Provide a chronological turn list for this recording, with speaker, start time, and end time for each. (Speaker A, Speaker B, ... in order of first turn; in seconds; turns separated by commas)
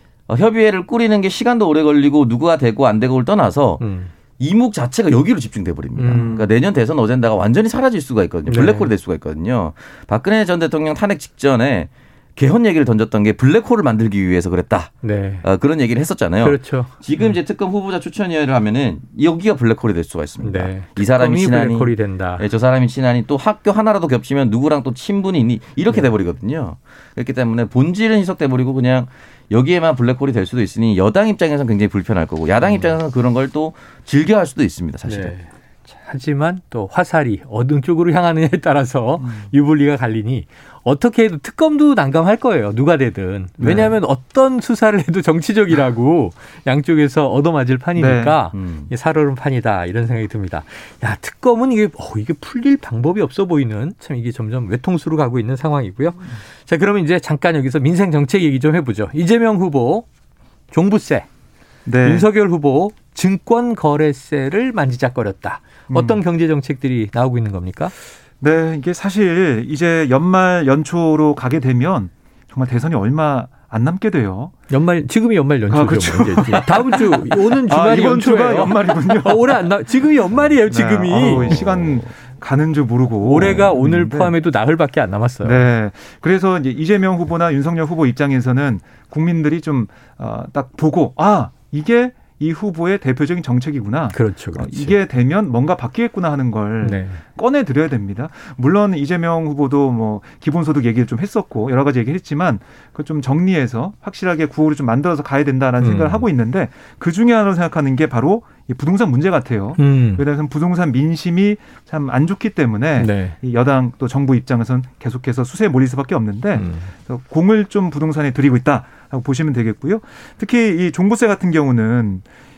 Speaker A: 0.3-3.8, Speaker B: 3.8-4.1, Speaker A: 4.4-35.3, Speaker B: 6.0-6.4, Speaker C: 6.1-6.5, Speaker B: 8.5-8.9, Speaker B: 15.0-15.4, Speaker B: 16.4-16.9, Speaker B: 20.4-22.4, Speaker B: 35.1-60.1, Speaker C: 39.2-39.5, Speaker C: 43.6-44.0, Speaker C: 48.0-48.4, Speaker A: 48.5-48.9, Speaker B: 60.7-61.3, Speaker C: 61.9-62.3, Speaker B: 62.0-67.9, Speaker C: 65.9-66.2, Speaker C: 68.4-74.5, Speaker B: 74.7-81.6, Speaker C: 75.7-79.7, Speaker C: 80.7-84.3, Speaker A: 81.2-82.1, Speaker B: 83.2-85.6, Speaker C: 85.4-122.2, Speaker B: 94.1-95.0, Speaker B: 96.8-97.2, Speaker B: 105.8-106.2, Speaker B: 109.8-110.2, Speaker B: 113.0-113.4, Speaker B: 116.5-116.9